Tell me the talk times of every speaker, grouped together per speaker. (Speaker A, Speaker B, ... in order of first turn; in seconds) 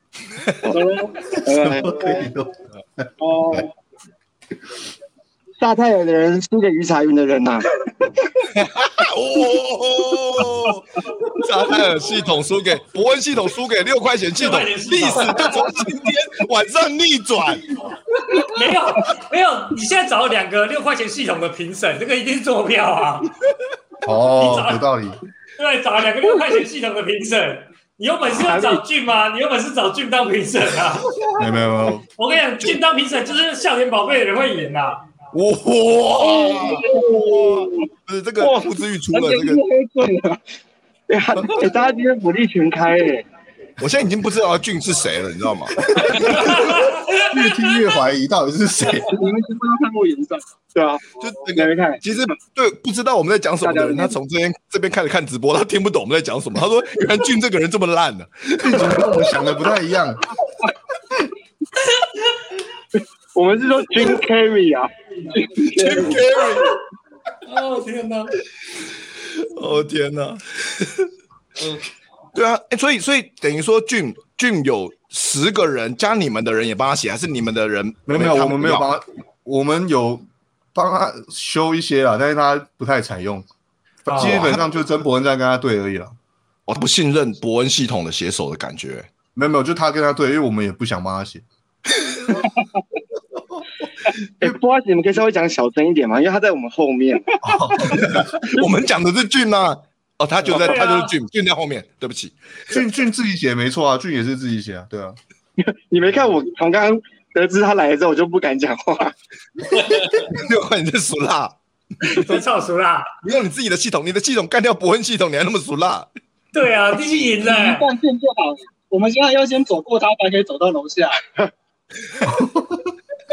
Speaker A: 0.4-0.6, 8.5-17.6, 35.3-39.6, 41.4-41.6, 43.8-45.8, 51.2-59.0, 65.7-66.8, 69.4-71.1, 72.3-78.9, 84.2-84.6, 86.7-89.1, 91.9-92.3, 97.9-102.7, 109.9-112.4, 113.2-116.1
Speaker B: 0.7-1.2, 3.2-3.7, 36.4-37.7, 39.1-40.4, 49.1-50.4, 117.4-121.2
Speaker C: 1.4-3.6, 24.0-25.2, 31.4-32.0, 46.0-46.6, 47.2-49.1, 58.6-60.2, 78.1-83.5, 84.0-86.1, 89.3-91.4, 97.4-98.2, 102.7-105.2, 122.2-122.8
Speaker D: 1.4-2.2, 5.6-7.7, 36.4-37.5, 41.1-43.2, 50.7-52.0, 53.6-54.1, 63.3-66.2, 94.4-97.9, 105.6-109.1
Speaker E: 14.4-15.6, 18.3-23.3, 24.4-24.9, 25.6-31.1, 32.1-35.0, 46.2-47.4, 67.4-68.3, 84.1-84.4, 100.5-101.1, 112.0-113.1, 116.5-117.9